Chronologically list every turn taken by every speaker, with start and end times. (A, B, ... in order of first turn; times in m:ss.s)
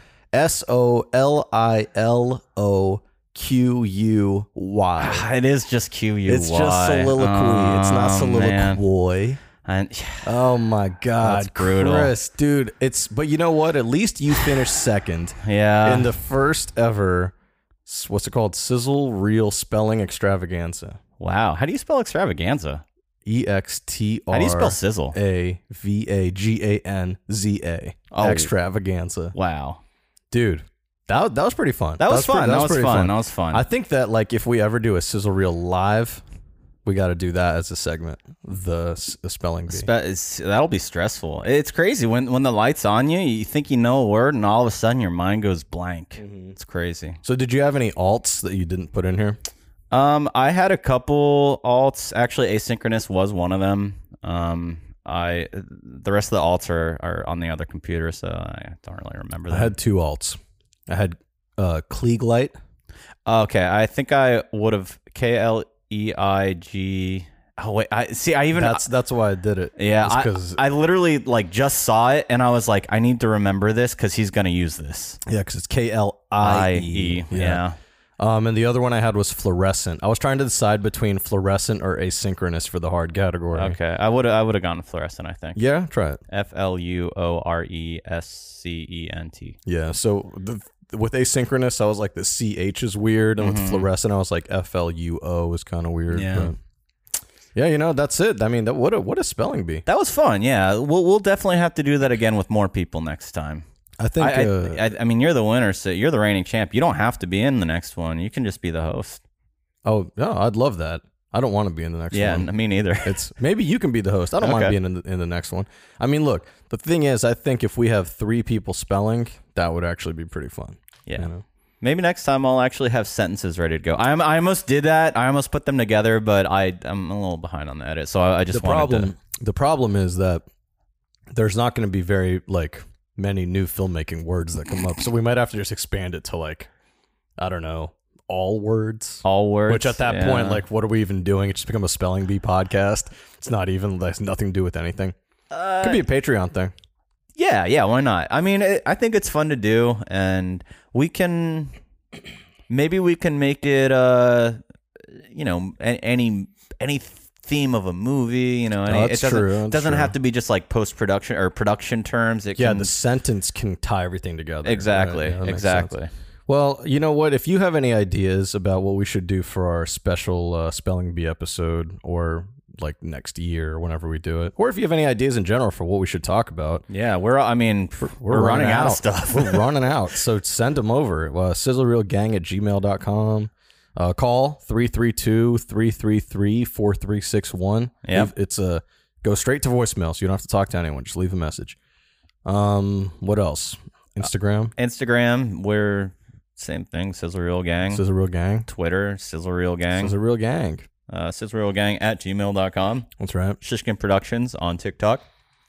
0:00.3-0:05.3 A
0:05.0-0:08.8 B
0:06.3-0:09.4 A
0:09.6-0:10.4 B
0:10.2-0:17.3 A
0:11.2-0:12.1 B
0:15.4-0:16.1 B
0:17.9-0:21.0 A
0:21.2-0:22.8 B
0:23.2-0:29.4 A
0:24.3-0:25.2 B
0:28.1-0:28.5 B
0:29.3-0:29.8 B
0:30.3-0:36.2 A
0:32.0-0:33.6 B
0:36.8-0:39.9 A
0:39.7-0:47.2 B
0:46.2-0:46.6 A
0:47.2-0:49.4 A
0:49.9-0:59.7 B
0:59.5-1:02.6 A
1:03.3-1:08.8 B
1:08.5-1:10.6 A
1:09.8-1:15.2 B
1:15.3-1:17.6 A
1:16.4-1:17.8 B
1:18.2-1:23.8 A
1:23.5-1:25.6 B
1:25.6-1:26.2 A
1:26.3-1:29.6 B
1:29.7-1:36.6 A
1:33.4-1:33.9 B
1:36.1-1:36.5 B
1:37.6-1:39.8 A
1:39.9-1:43.6 B
1:44.0-1:44.8 A
1:44.2-1:49.2 B
1:49.8-1:52.5 A
1:52.1-1:53.2 B
1:53.0-2:01.4 A
1:54.4-1:54.8 B
2:01.8-2:09.1 B
2:08.5-2:10.4 A
2:11.3-2:16.7 A
2:17.4-2:25.2 A
2:19.2-2:20.6 B
2:25.5-2:26.1 B
2:25.8-2:26.7 A
2:27.4-2:31.7 B
2:32.7-2:43.0 B
2:38.9-2:40.2 A
2:42.6-2:45.9 A
2:44.6-2:46.1 B
2:46.5-2:56.8 A
2:56.9-2:59.7 B
2:58.0-3:11.8 A
3:08.0-3:08.3 B
3:12.4-3:14.8 A
3:14.8-3:18.0 B
3:17.9-3:18.7 A
3:18.7-3:20.2 B
3:19.9-3:20.9 A
3:21.1-3:23.1 B
3:23.2-3:23.6 A
3:23.6-3:25.2 B